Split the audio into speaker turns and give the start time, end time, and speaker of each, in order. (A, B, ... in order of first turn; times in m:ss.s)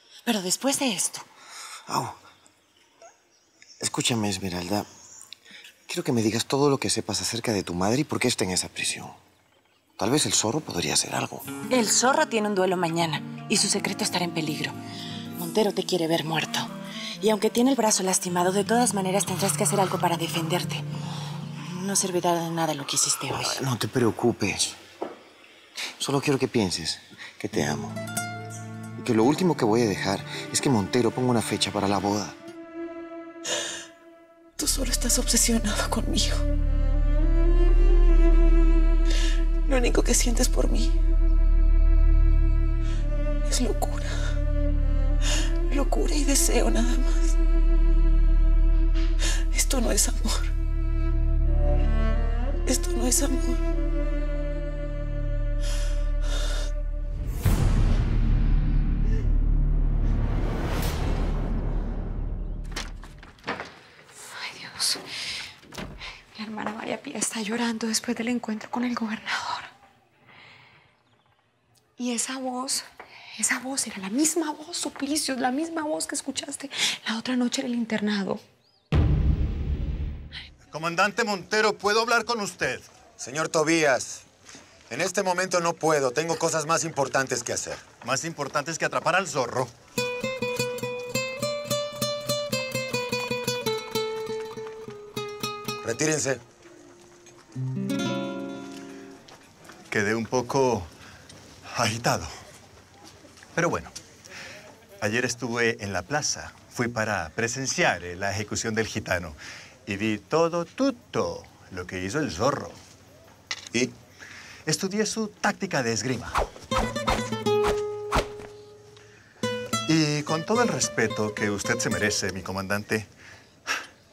0:00.2-0:01.2 A
0:01.9-0:02.2 B
0:03.8-0:04.9 B
0:05.9-0:09.2 B
0:10.0-0:11.5 B
0:11.7-0:14.8 A
0:15.4-0:20.8 A
0:21.6-0:23.6 A
0:23.4-0:24.8 B
0:26.0-0:28.0 B
0:29.0-0:32.4 B
0:34.6-0:36.5 C
0:39.7-0:41.0 C
0:43.5-0:44.2 C
0:45.7-0:47.4 C
0:49.5-0:50.5 C
0:52.7-0:53.6 C
1:04.4-1:05.0 D
1:06.4-1:09.7 D
1:12.0-1:12.8 D
1:13.4-1:18.4 D
1:20.7-1:22.9 E
1:23.2-1:24.2 F
1:24.9-1:27.8 F
1:28.0-1:29.7 E
1:35.8-1:36.4 F
1:39.9-1:40.9 E
1:41.7-1:42.3 E
1:43.6-1:43.9 E
1:45.0-1:52.8 E
1:54.7-1:56.4 E
1:59.9-2:03.1 E